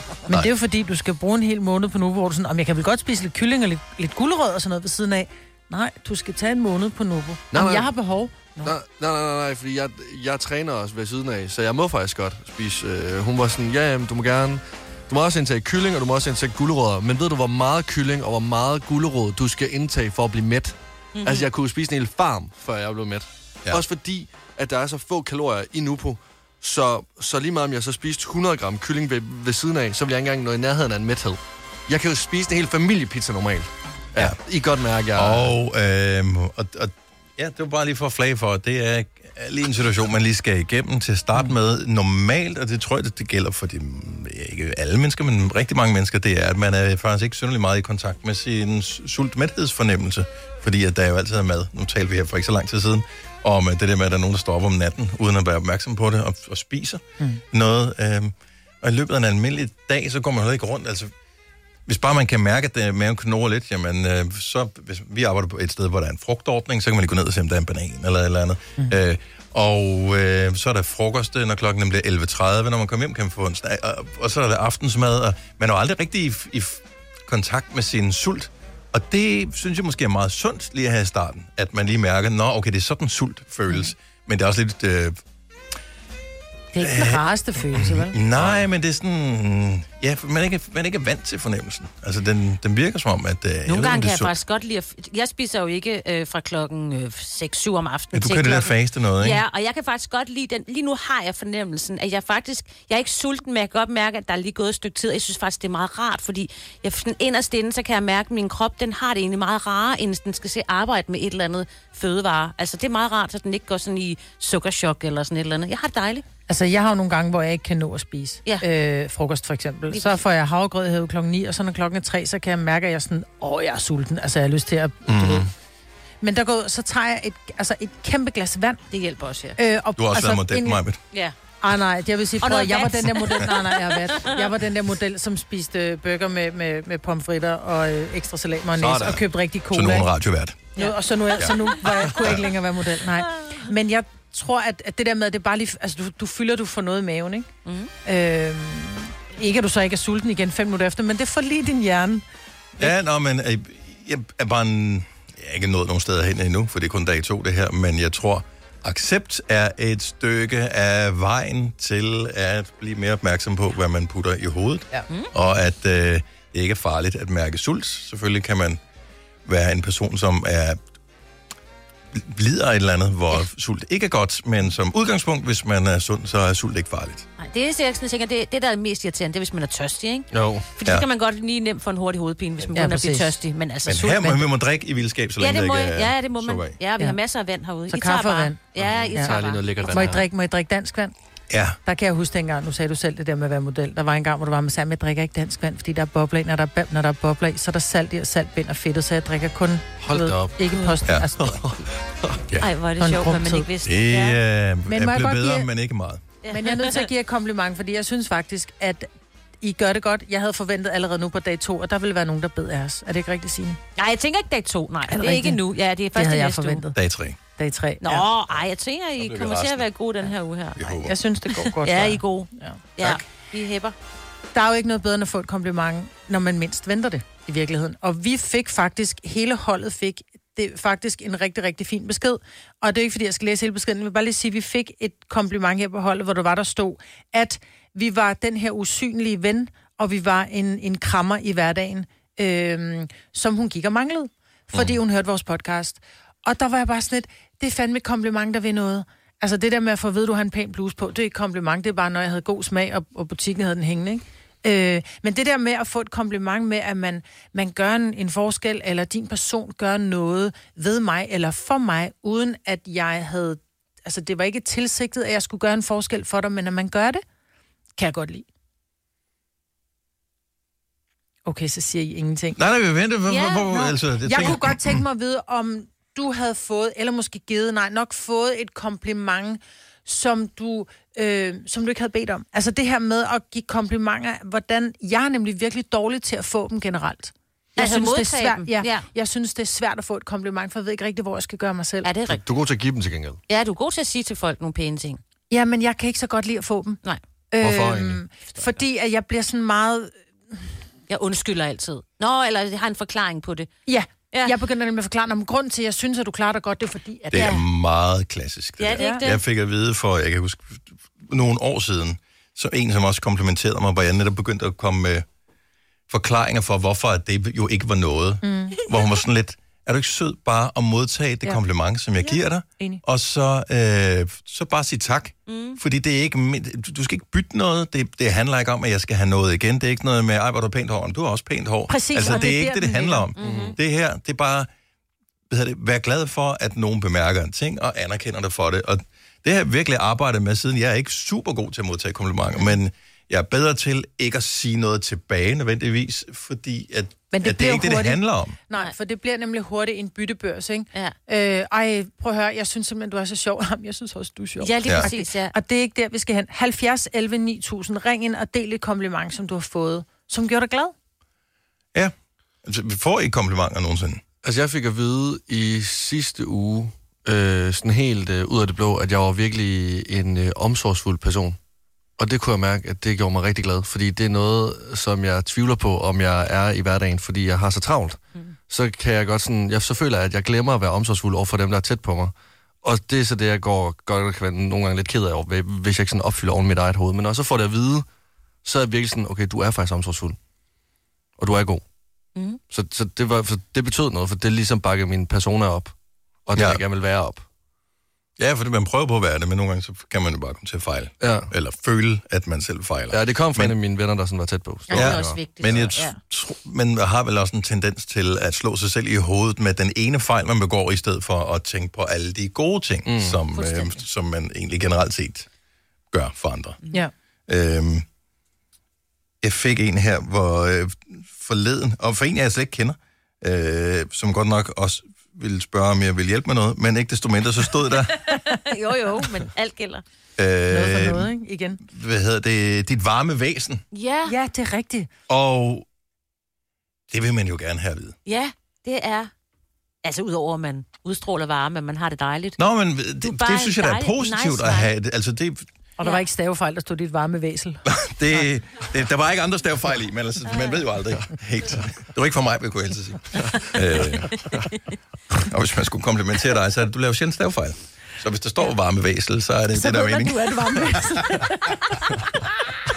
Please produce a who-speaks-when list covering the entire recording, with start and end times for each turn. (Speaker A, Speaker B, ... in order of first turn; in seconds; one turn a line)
Speaker A: 0.3-8.7
Speaker B: 7.5-7.9
Speaker B: 8.6-35.5
Speaker C: 21.2-21.5
Speaker D: 35.2-61.1
Speaker D: 61.9-85.2
Speaker A: 86.7-88.2
Speaker D: 86.8-87.2
Speaker D: 87.7-94.3
Speaker C: 93.7-116.2
Speaker D: 98.1-99.4
Speaker A: 116.5-125.5
Speaker C: 119.9-120.2
Speaker D: 125.1-125.5
Speaker A: 126.2-128.8
Speaker C: 128.9-129.6
Speaker A: 129.6-130.8
Speaker D: 130.0-131.0
Speaker A: 131.6-140.1
Speaker C: 132.4-134.5
Speaker B: 138.8-139.2
Speaker D: 139.7-140.7
Speaker A: 140.8-147.5
Speaker C: 147.7-147.9
Speaker A: 148.1-152.2
Speaker D: 152.8-168.8
Speaker D: 169.5-170.8
Speaker D: 172.1-177.3
Speaker C: 177.4-184.4
Speaker B: 180.3-180.7
Speaker A: 182.8-183.3
Speaker D: 183.9-186.8
Speaker C: 185.4-189.7
Speaker A: 187.9-188.6
Speaker B: 188.8-190.3
Speaker A: 189.9-191.1
Speaker D: 191.5-191.8
Speaker A: 191.8-201.7
Speaker B: 200.0-200.8
Speaker B: 201.4-202.4
Speaker C: 202.6-204.4
Speaker A: 203.0-203.7
Speaker D: 203.8-206.2
Speaker A: 204.9-205.7
Speaker C: 206.4-207.1
Speaker A: 206.5-209.1
Speaker A: 209.6-213.8
Speaker C: 214.0-216.8
Speaker A: 215.1-215.6
Speaker A: 216.1-217.0
Speaker D: 216.9-217.4
Speaker A: 217.6-218.3
Speaker C: 218.0-220.9
Speaker D: 219.2-219.9
Speaker D: 220.8-221.1
Speaker A: 221.0-222.8
Speaker C: 221.6-223.9
Speaker A: 224.5-267.2
Speaker A: 268.0-268.5
Speaker A: 271.4-272.6
Speaker D: 272.6-275.0
Speaker C: 273.3-273.9
Speaker A: 273.7-292.1
Speaker C: 287.8-289.1
Speaker C: 292.0-292.4
Speaker B: 292.3-293.4
Speaker C: 293.5-295.2
Speaker A: 295.5-297.0
Speaker A: 297.5-300.6
Speaker B: 297.6-298.2
Speaker C: 301.1-303.7
Speaker A: 303.9-307.6
Speaker D: 307.3-315.2
Speaker C: 307.3-307.6
Speaker C: 308.8-309.4
Speaker A: 309.0-309.2
Speaker D: 316.1-334.7
Speaker A: 318.4-318.8
Speaker C: 325.5-325.8
Speaker A: 331.9-333.3
Speaker C: 333.4-333.8
Speaker B: 333.4-333.8
Speaker D: 335.5-348.6
Speaker A: 347.3-360.9
Speaker C: 354.6-355.5
Speaker D: 361.9-364.2
Speaker B: 364.4-371.6
Speaker B: 372.2-388.1
Speaker B: 388.6-390.4
Speaker B: 391.4-391.8
Speaker B: 392.7-395.9
Speaker B: 396.5-397.4
Speaker D: 396.6-396.8
Speaker D: 398.4-403.8
Speaker B: 401.2-401.5
Speaker B: 403.1-405.8
Speaker C: 404.9-406.2
Speaker D: 404.9-415.5
Speaker B: 413.1-413.4
Speaker C: 413.6-414.0
Speaker D: 416.1-416.8
Speaker D: 417.5-418.1
Speaker D: 419.4-428.1
Speaker C: 428.3-430.0
Speaker A: 428.3-429.5
Speaker D: 430.4-431.3
Speaker A: 430.7-431.8
Speaker D: 431.8-433.8
Speaker C: 433.9-434.4
Speaker A: 434.3-435.1
Speaker D: 435.3-435.9
Speaker D: 437.1-438.2
Speaker C: 438.3-439.3
Speaker C: 440.0-442.6
Speaker D: 442.6-445.7
Speaker C: 443.2-444.9
Speaker A: 446.0-447.8
Speaker D: 447.9-454.5
Speaker C: 450.5-450.8
Speaker D: 455.4-461.0
Speaker A: 459.7-462.0